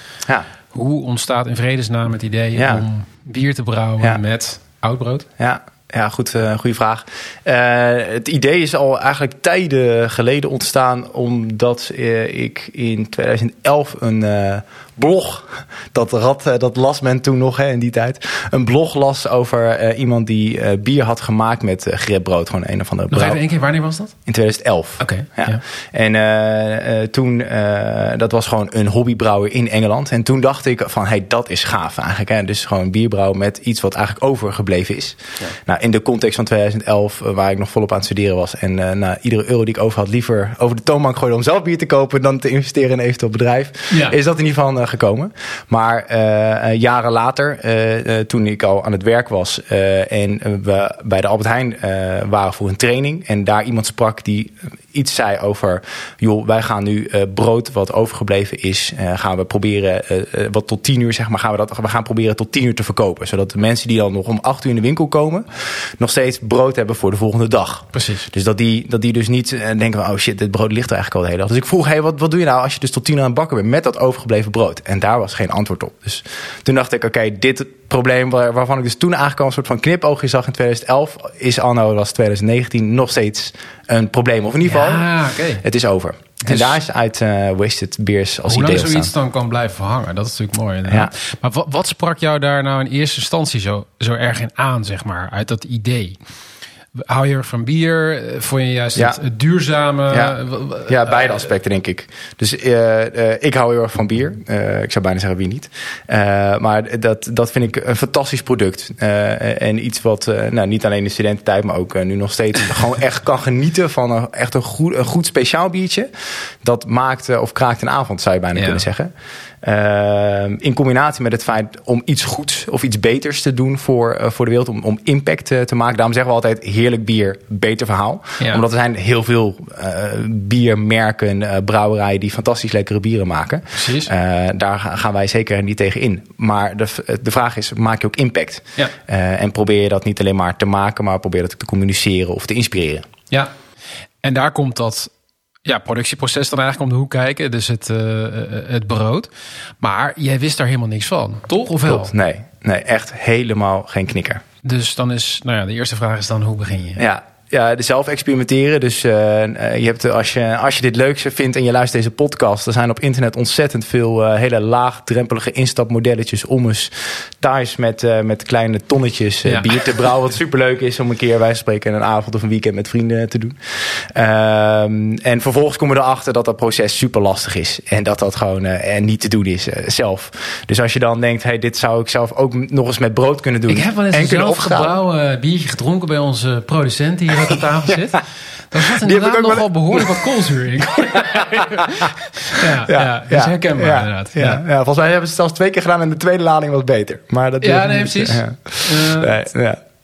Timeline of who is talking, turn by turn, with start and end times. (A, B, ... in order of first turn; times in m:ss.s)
0:00.7-0:05.3 A
0:02.6-0:02.8 B
0:05.4-0:23.4 B
0:23.1-0:24.1 A
0:24.3-1:25.1 B
0:25.0-0:25.6 A
0:43.9-0:44.2 A
1:07.9-1:08.3 A
1:24.6-1:25.6 A
1:25.6-1:29.1 B
1:26.5-1:26.8 A
1:28.5-1:36.2 A
1:37.0-1:41.5 A
1:40.1-2:23.1 B
1:58.6-1:58.8 A
2:13.7-2:14.1 A
2:24.2-2:25.1 A
2:25.6-2:32.1 A
2:31.9-2:34.4 B
2:34.6-2:37.0 A
2:37.0-3:04.9 B
2:49.4-2:49.8 A
3:03.7-3:14.6 A
3:08.8-3:10.3 B
3:11.0-3:19.8 B
3:17.6-3:19.4 A